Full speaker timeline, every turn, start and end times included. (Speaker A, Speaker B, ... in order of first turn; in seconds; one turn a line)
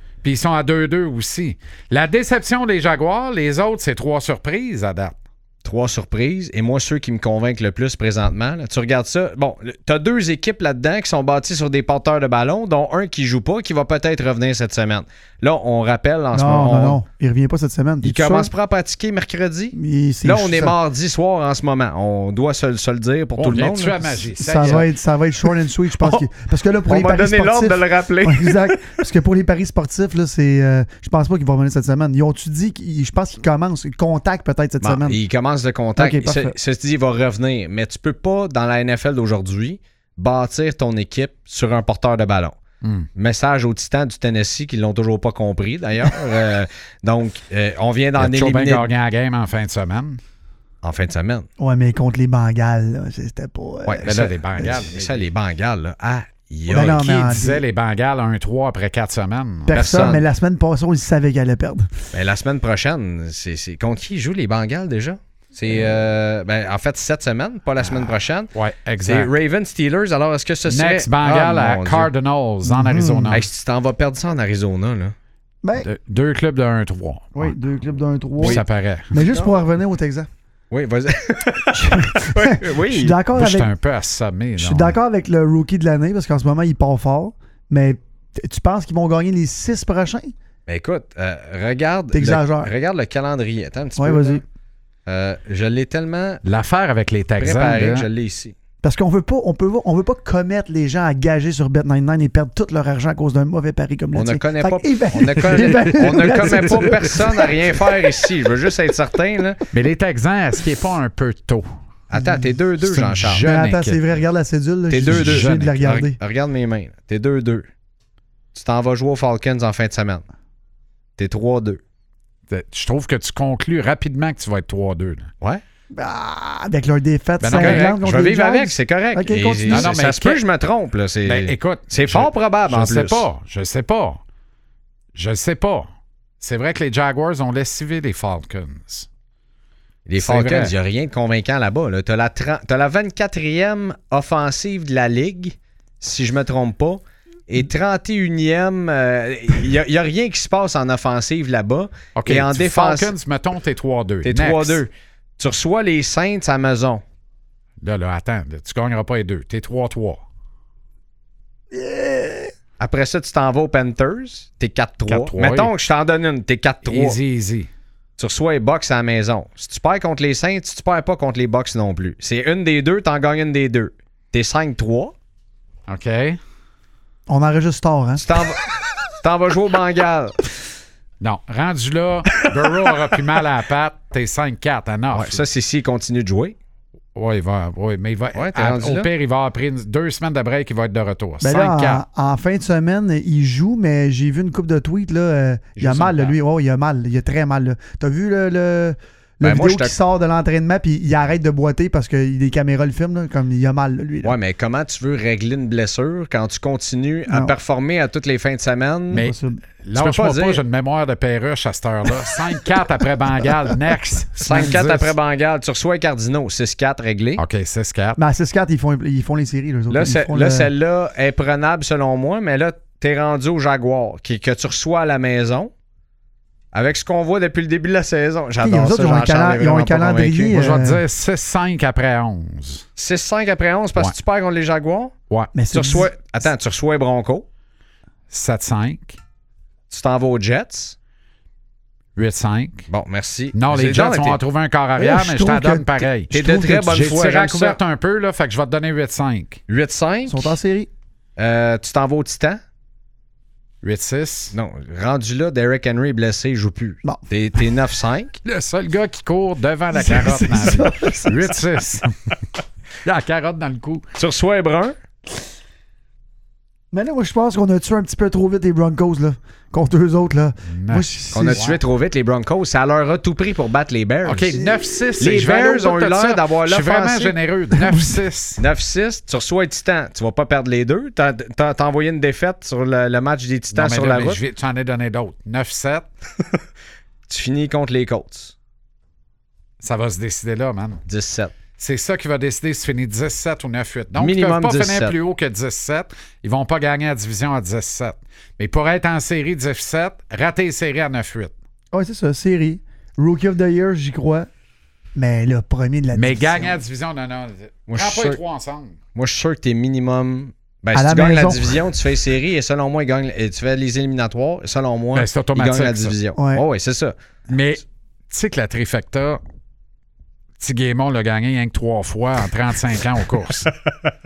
Speaker A: 0.2-5.2
Speaker B: 5.6-17.0
Speaker C: 16.3-18.5
Speaker B: 18.0-24.8
Speaker C: 19.7-20.7
Speaker A: 23.4-24.9
Speaker C: 24.4-35.2
Speaker B: 26.0-26.3
Speaker B: 26.9-28.9
Speaker B: 34.8-42.6
Speaker C: 36.0-36.5
Speaker B: 43.1-48.9
Speaker A: 48.2-50.2
Speaker B: 50.8-51.5
Speaker C: 51.6-54.7
Speaker B: 53.9-57.0
Speaker A: 54.0-55.3
Speaker C: 56.7-57.6
Speaker A: 56.7-59.7
Speaker C: 59.7-62.0
Speaker B: 59.7-60.2
Speaker B: 62.1-72.1
Speaker A: 68.5-69.3
Speaker A: 70.7-73.4
Speaker C: 72.7-73.3
Speaker B: 73.3-75.2
Speaker C: 75.6-75.9
Speaker A: 75.8-77.5
Speaker C: 77.4-80.3
Speaker A: 78.4-79.1
Speaker B: 79.3-79.6
Speaker B: 80.7-83.2
Speaker C: 81.7-83.7
Speaker A: 83.4-85.0
Speaker C: 84.6-90.3
Speaker B: 90.7-94.4
Speaker C: 92.1-92.7
Speaker C: 94.0-94.4
Speaker B: 95.1-96.4
Speaker A: 96.5-98.1
Speaker B: 97.4-98.6
Speaker C: 98.8-107.7
Speaker B: 104.1-109.6
Speaker A: 109.7-111.7
Speaker B: 112.1-113.4
Speaker C: 112.2-112.5
Speaker A: 112.8-114.0
Speaker C: 113.4-116.2
Speaker B: 114.9-117.7
Speaker A: 115.0-115.9
Speaker B: 118.5-120.2
Speaker B: 121.2-121.8
Speaker A: 122.5-125.3
Speaker C: 125.9-129.9
Speaker A: 127.4-128.0
Speaker B: 127.5-133.3
Speaker A: 129.7-130.4
Speaker A: 131.2-134.2
Speaker A: 135.2-135.9
Speaker A: 136.4-139.1
Speaker B: 140.1-153.2
Speaker A: 140.2-140.7
Speaker A: 152.2-154.8
Speaker B: 154.2-157.0
Speaker A: 157.8-160.2
Speaker C: 161.7-162.5
Speaker B: 162.8-167.2
Speaker A: 165.1-165.7
Speaker A: 166.8-167.7
Speaker B: 168.2-175.2
Speaker A: 175.9-176.4
Speaker C: 177.3-178.2
Speaker B: 178.2-180.5
Speaker A: 181.2-185.4
Speaker B: 185.1-186.6
Speaker A: 187.2-192.0
Speaker B: 188.3-189.1
Speaker C: 191.4-204.3
Speaker A: 195.8-196.3
Speaker B: 199.4-199.9
Speaker B: 204.2-209.3
Speaker C: 209.1-209.6
Speaker A: 209.1-215.1
Speaker B: 209.9-210.6
Speaker B: 214.4-217.4
Speaker A: 217.4-218.2
Speaker C: 218.2-220.7
Speaker B: 219.9-225.7
Speaker B: 226.7-230.7
Speaker C: 228.6-231.0
Speaker A: 230.5-232.9
Speaker B: 233.0-235.2
Speaker C: 235.5-236.1
Speaker B: 235.7-237.5
Speaker A: 238.3-239.2
Speaker B: 239.9-241.0
Speaker A: 242.2-242.9
Speaker B: 242.9-244.4
Speaker A: 243.5-249.6
Speaker C: 245.0-245.9
Speaker B: 246.3-247.8
Speaker B: 249.7-250.5
Speaker C: 250.3-250.9
Speaker B: 251.4-252.6
Speaker A: 253.8-254.6
Speaker B: 254.5-258.4
Speaker A: 258.4-262.3
Speaker C: 259.9-261.6
Speaker A: 263.0-264.0
Speaker B: 264.2-265.0
Speaker C: 266.9-271.6
Speaker A: 270.7-271.8
Speaker B: 271.3-274.6
Speaker A: 274.2-278.6
Speaker C: 274.6-275.1
Speaker B: 275.2-277.4
Speaker C: 277.8-278.2
Speaker B: 278.6-284.4
Speaker A: 283.7-286.1
Speaker B: 287.3-288.6
Speaker A: 289.8-291.0
Speaker B: 291.1-291.5
Speaker A: 291.8-301.5
Speaker B: 294.2-295.2
Speaker C: 301.9-304.5
Speaker C: 305.2-306.8
Speaker A: 306.1-309.0
Speaker B: 307.9-308.4
Speaker B: 309.1-317.2
Speaker C: 310.9-311.8
Speaker A: 315.1-316.2
Speaker C: 316.4-316.6
Speaker A: 317.5-319.4
Speaker A: 320.6-323.7